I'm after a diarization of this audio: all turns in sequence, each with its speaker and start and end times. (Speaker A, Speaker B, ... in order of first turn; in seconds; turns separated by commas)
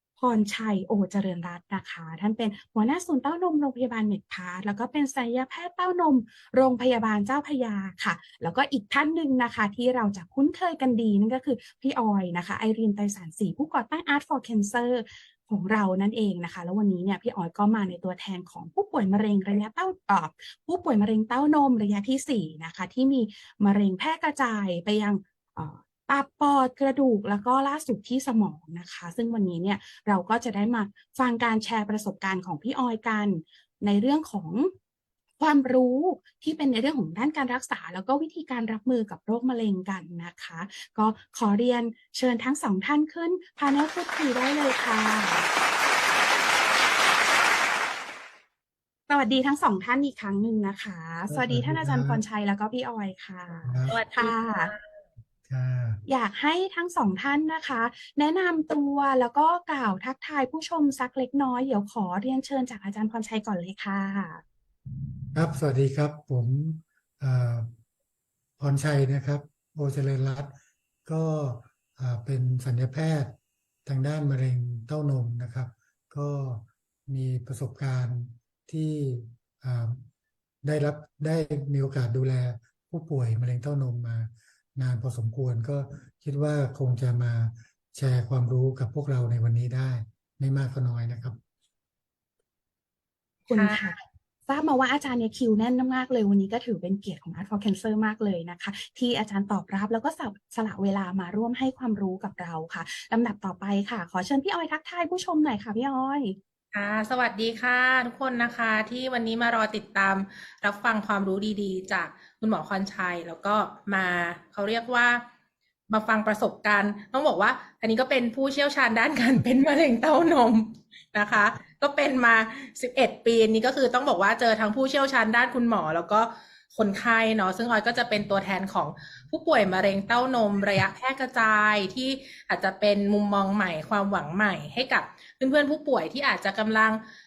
Speaker A: 0.2-34.7, Speaker A: 35.4-45.5, Speaker A: 49.1-54.7, Speaker B: 51.3-52.2, Speaker B: 53.7-54.0, Speaker C: 53.9-54.8, Speaker B: 55.5-56.0, Speaker A: 56.1-64.4, Speaker B: 65.3-67.7, Speaker B: 68.6-70.5, Speaker B: 71.1-80.0, Speaker B: 80.6-91.4, Speaker A: 93.5-106.4, Speaker C: 93.5-93.9, Speaker C: 106.7-115.3, Speaker C: 115.9-137.0